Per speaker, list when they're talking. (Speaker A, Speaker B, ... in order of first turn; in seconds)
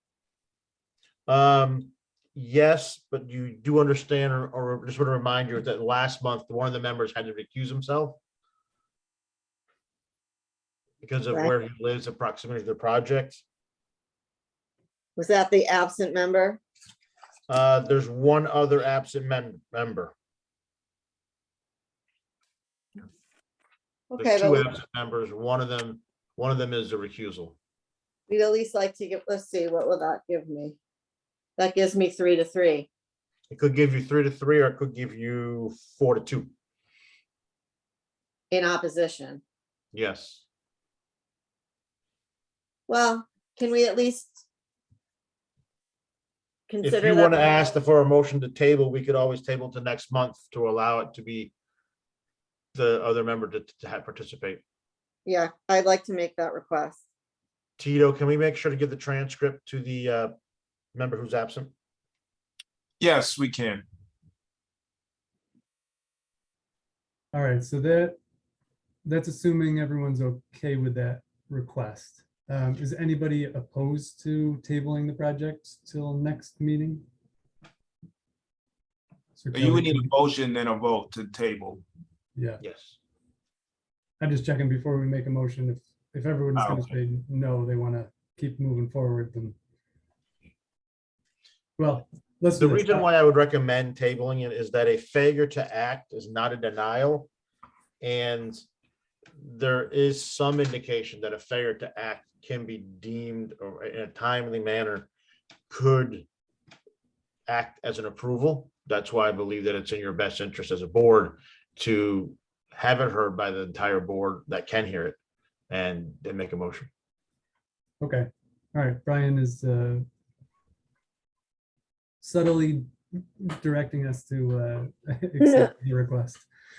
Speaker A: 1.3-8.2, 11.0-13.4, 17.5-20.1, 24.2-27.6, 33.5-36.5, 39.9-40.4, 46.8-51.5, 52.7-54.6, 57.8-60.3, 60.9-61.7, 82.6-82.9, 92.5-97.3, 98.0-98.6, 99.4-105.1, 105.7-106.3, 107.5-115.2, 115.7-116.9
Speaker B: 15.2-16.6, 24.1-24.6, 28.3-30.8, 31.6-32.9, 38.5-39.4, 42.9-44.4, 46.7-47.7, 55.2-57.0
Speaker C: 63.0-63.8, 79.5-81.8, 86.5-86.9
Speaker D: 67.3-68.2, 69.0-77.0, 79.3-80.1, 82.3-82.6, 84.2-89.5, 91.8-93.1, 118.0-120.0, 122.2-126.5